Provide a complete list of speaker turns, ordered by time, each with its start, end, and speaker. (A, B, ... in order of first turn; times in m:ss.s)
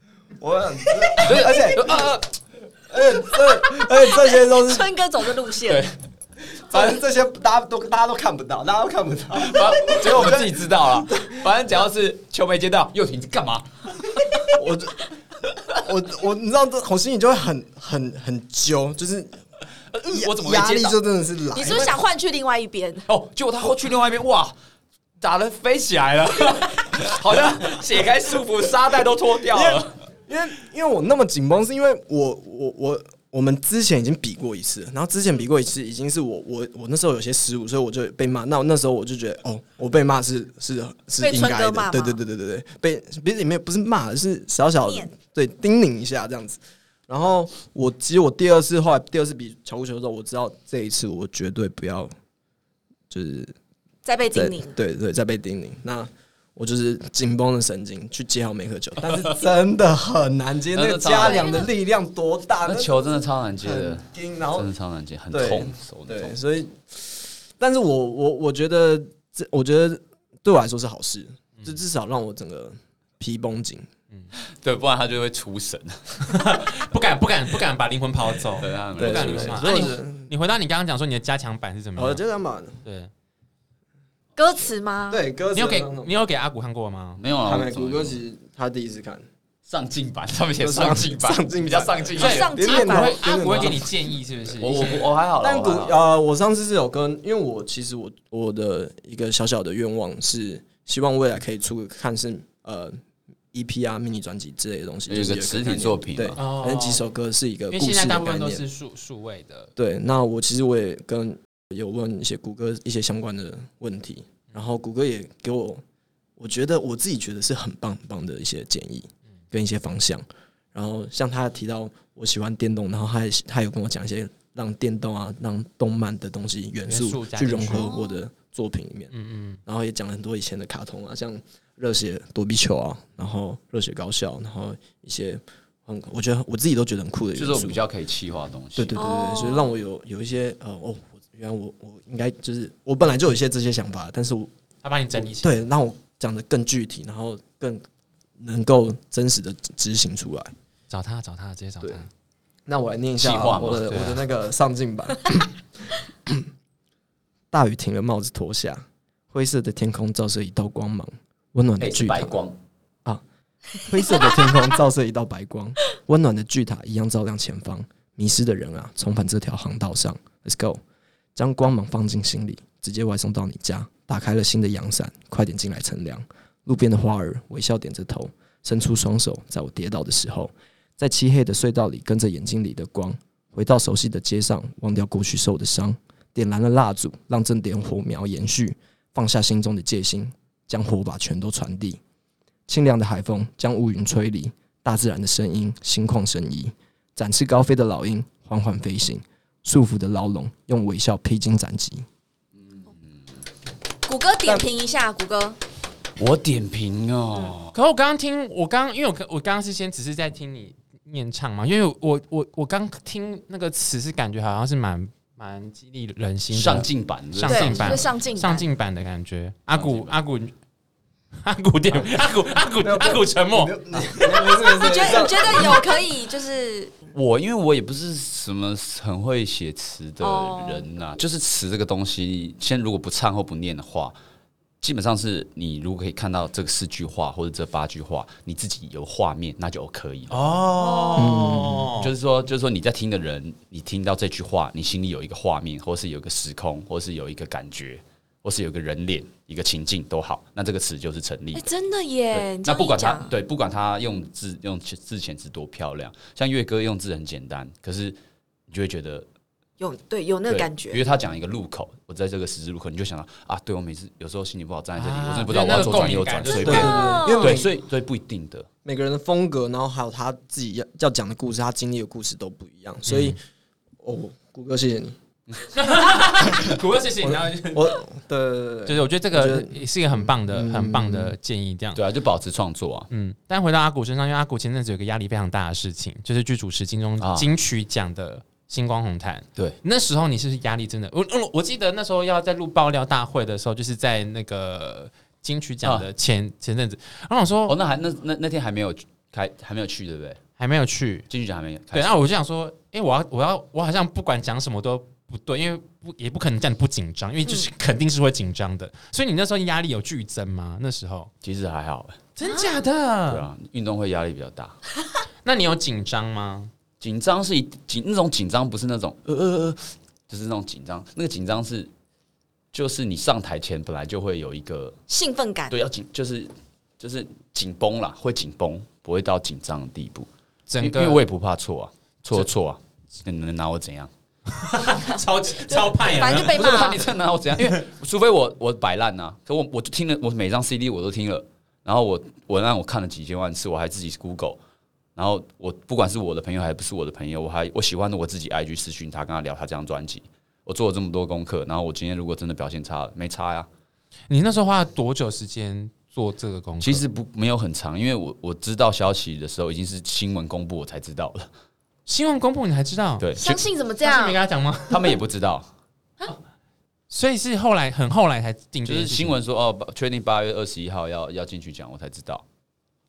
0:00.4-0:02.1 A
0:01.2-0:02.4 B
0:02.9-0:04.8 A
0:03.4-0:05.8 C
0:05.7-0:05.9 B
0:06.7-0:11.4 A
0:09.3-0:14.6 B
0:14.5-0:15.0 A
0:15.8-0:19.4 A
0:19.9-0:21.0 B
0:20.1-0:22.0 A
0:21.5-0:23.1 C
0:23.1-0:24.6 B
0:25.2-0:30.0 B
0:29.5-0:52.1 A
0:41.2-0:42.2 C
0:44.8-0:45.1 C
0:53.1-0:53.5 A
0:54.0-0:54.8 C
0:54.3-1:03.1 A
1:00.7-1:01.7 B
1:01.2-1:01.7 C
1:02.6-1:06.4 B
1:03.6-1:04.7 A
1:05.3-1:13.9 A
1:14.6-1:16.5 B
1:16.2-1:22.2 D
1:18.6-1:19.8 B
1:19.0-1:20.3 A
1:22.0-1:22.8 A
1:22.8-1:23.1 D
1:24.4-1:25.2 C
1:25.1-1:26.1 A
1:25.6-1:27.2 D
1:27.2-1:28.2 B
1:27.4-1:29.2 A
1:29.7-1:32.5 B
1:30.6-1:34.0 A
1:32.2-1:33.7 C
1:32.2-1:35.1 D
1:34.6-1:36.0 B
1:35.4-1:43.0 A
1:43.5-1:48.6 A
1:45.1-1:46.4 B
1:46.4-1:47.0 D
1:47.7-1:49.7 D
1:49.8-1:55.8 A
1:56.4-2:09.1 A
2:06.9-2:07.9 D
2:07.7-2:08.2 C
2:09.1-2:09.6 D
2:09.7-2:17.8 A
2:17.4-2:19.0 B
2:18.8-2:24.5 A
2:19.0-2:19.7 C
2:24.8-2:25.5 D
2:25.2-2:27.8 A
2:28.4-2:30.5 A
2:30.9-2:32.1 D
2:32.7-2:35.6 A
2:33.2-2:34.1 B
2:33.9-2:34.2 D
2:37.5-2:42.4 A
2:41.8-2:42.6 B
2:43.8-2:50.8 A
2:51.4-3:12.0 A
3:12.7-3:22.1 A
3:24.0-3:25.6 C
3:26.2-3:27.7 B
3:27.7-3:40.5 D
3:36.5-3:38.1 B
3:37.4-3:38.6 C
3:39.7-3:40.1 B
3:41.4-3:44.9 D
3:42.8-3:46.0 A
3:44.8-3:46.9 C
3:47.1-3:54.2 B
3:50.2-3:50.9 C
3:54.8-4:00.4 B
4:00.3-4:02.1 D
4:00.8-4:01.4 C
4:01.2-4:01.9 A
4:02.0-4:11.7 B
4:11.5-4:13.3 C
4:12.3-4:18.2 B
4:18.7-4:19.3 B
4:19.8-4:21.0 C
4:20.5-4:28.7 B
4:25.0-4:27.2 D
4:26.6-4:27.7 A
4:26.7-4:27.6 C
4:28.8-4:33.4 A
4:33.1-4:33.4 D
4:34.0-4:35.2 A
4:35.7-4:38.0 D
4:37.2-4:41.4 A
4:38.9-4:42.0 D
4:42.0-4:43.1 B
4:43.1-4:57.8 D
4:47.2-4:47.5 B
4:55.8-4:56.1 B
4:57.7-5:00.4 B
5:00.6-5:01.3 D
5:01.3-5:02.2 B
5:01.9-5:11.3 D
5:11.4-5:12.2 B
5:12.4-5:13.5 D
5:12.4-5:12.8 C
5:13.3-5:14.8 B
5:15.4-5:16.7 D
5:17.0-5:21.9 B
5:22.7-5:25.0 B
5:25.1-5:25.8 C
5:25.7-5:30.3 B
5:30.7-5:31.2 D
5:30.8-5:34.1 B
5:34.5-5:37.0 D
5:35.7-5:37.0 C
5:36.3-5:44.6 B
5:37.6-5:37.8 D
5:45.2-5:53.7 B
5:54.3-5:57.0 D
5:56.8-6:01.5 B
6:02.1-6:03.3 D
6:03.2-6:03.6 B
6:03.4-6:04.4 C
6:04.0-6:05.2 D
6:04.9-6:05.7 B
6:07.1-6:09.4 D
6:08.8-6:12.4 B